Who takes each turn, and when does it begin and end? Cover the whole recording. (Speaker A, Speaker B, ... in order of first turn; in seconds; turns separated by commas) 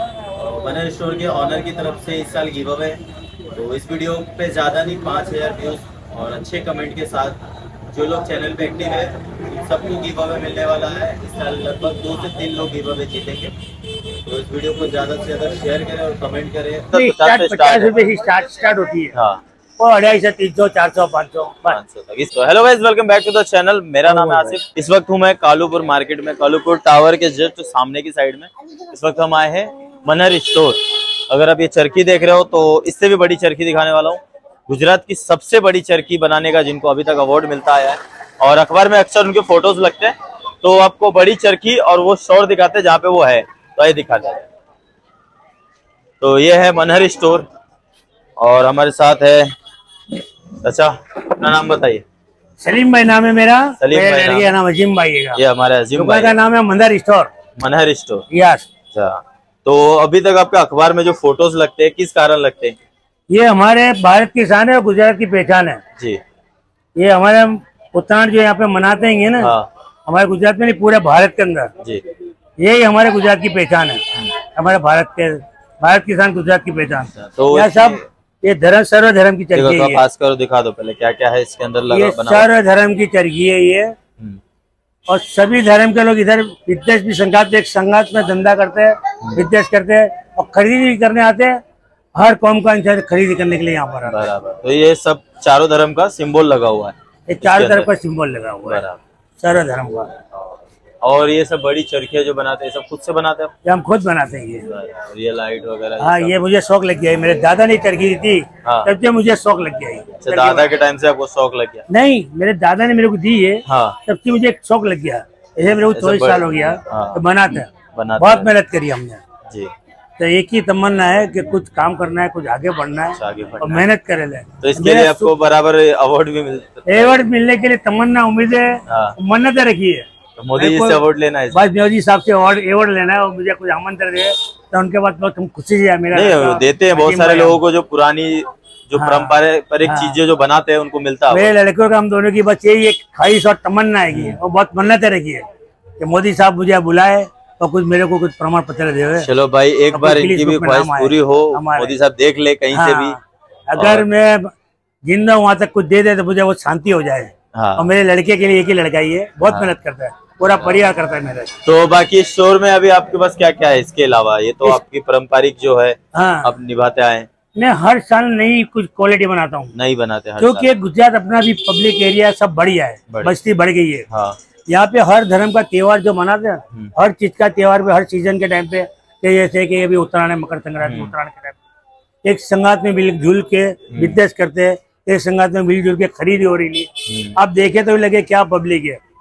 Speaker A: 0.3-7.4, Speaker A: 7.9-13.5, Speaker A: 14.3-18.0, Speaker B: 16.9-19.1, Speaker A: 19.1-19.4, Speaker B: 19.8-21.8, Speaker A: 21.7-44.5, Speaker B: 24.1-24.6, Speaker A: 46.2-47.5, Speaker A: 48.4-49.5, Speaker A: 50.6-52.0, Speaker B: 52.6-55.4, Speaker A: 53.8-54.5, Speaker A: 55.4-56.4, Speaker B: 56.0-57.3, Speaker A: 57.6-58.3, Speaker B: 58.3-58.7, Speaker A: 58.9-62.8, Speaker B: 63.3-65.8, Speaker B: 67.0-69.5, Speaker A: 69.4-69.7, Speaker B: 70.1-71.7, Speaker B: 72.6-74.0, Speaker B: 74.5-80.0, Speaker A: 77.2-78.0, Speaker A: 79.5-82.5, Speaker B: 81.9-83.9, Speaker B: 85.1-91.6, Speaker B: 92.2-94.2, Speaker A: 94.1-97.9, Speaker B: 97.3-98.8, Speaker A: 98.7-99.0, Speaker B: 99.4-100.1, Speaker A: 100.3-103.5, Speaker B: 103.7-104.7, Speaker A: 104.6-106.4, Speaker B: 106.0-110.7, Speaker A: 108.6-108.9, Speaker A: 110.2-111.8, Speaker B: 111.9-119.2, Speaker A: 113.7-114.0, Speaker A: 115.7-117.2, Speaker A: 117.9-118.5, Speaker B: 120.2-125.3, Speaker A: 123.1-123.9, Speaker A: 124.6-127.3, Speaker B: 126.9-137.6, Speaker A: 128.9-129.2, Speaker A: 130.4-131.6, Speaker A: 136.1-141.5, Speaker B: 139.0-140.2, Speaker B: 141.3-145.5, Speaker A: 144.1-144.4, Speaker B: 146.0-149.3, Speaker A: 149.2-153.2, Speaker B: 149.9-151.9, Speaker B: 152.7-154.5, Speaker A: 153.8-154.1, Speaker B: 155.1-161.5, Speaker A: 157.5-157.9, Speaker A: 159.4-159.7, Speaker A: 161.6-167.3, Speaker B: 166.2-166.5, Speaker B: 167.6-169.7, Speaker A: 169.7-170.7, Speaker B: 170.4-174.1, Speaker A: 174.1-174.4, Speaker B: 174.7-181.6, Speaker A: 180.8-181.1, Speaker B: 182.2-189.0, Speaker A: 183.9-184.2, Speaker A: 187.1-187.4